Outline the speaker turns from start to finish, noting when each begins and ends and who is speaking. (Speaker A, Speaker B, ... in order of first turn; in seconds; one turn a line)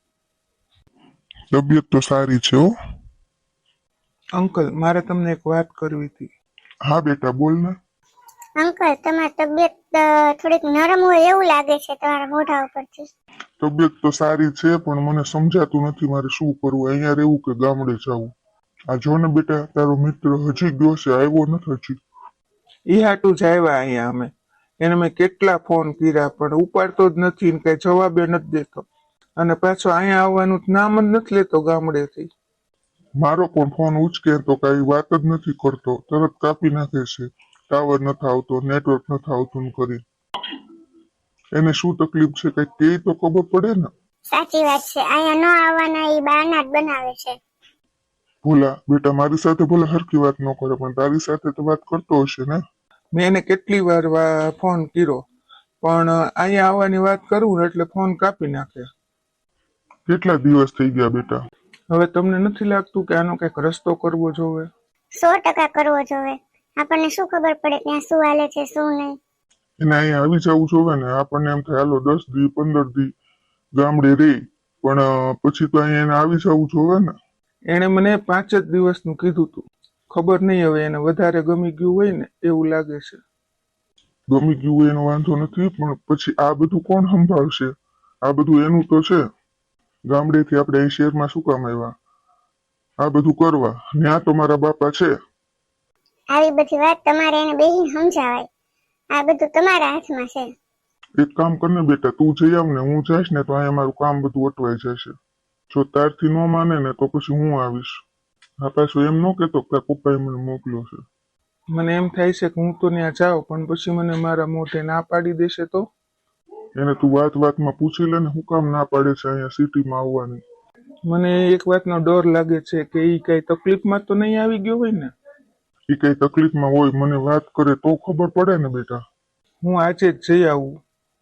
Speaker A: 1.5-2.7
Speaker B: 4.4-6.3
Speaker A: 6.8-7.7
Speaker C: 8.6-13.1
Speaker A: 13.6-18.3
Speaker A: 18.9-22.0
Speaker B: 22.9-28.9
Speaker B: 29.4-32.3
Speaker A: 33.2-40.0
Speaker A: 41.5-43.9
Speaker C: 44.3-47.4
Speaker A: 48.4-52.6
Speaker B: 53.1-55.2
Speaker B: 55.8-58.9
Speaker A: 60.1-61.4
Speaker B: 61.9-64.7
Speaker C: 65.1-69.1
Speaker A: 69.8-73.1
Speaker A: 73.8-77.1
Speaker B: 77.7-83.2
Speaker A: 84.3-87.7
Speaker A: 88.2-89.2
Speaker A: 90.1-91.9
Speaker A: 93.0-95.1
Speaker C: 96.3-98.5
Speaker C: 99.1-100.5
Speaker A: 101.2-105.1
Speaker A: 105.7-108.0
Speaker A: 108.6-111.0
Speaker B: 111.7-115.9
Speaker A: 116.8-120.4
Speaker B: 121.0-125.1
Speaker A: 125.9-129.0
Speaker B: 129.6-130.8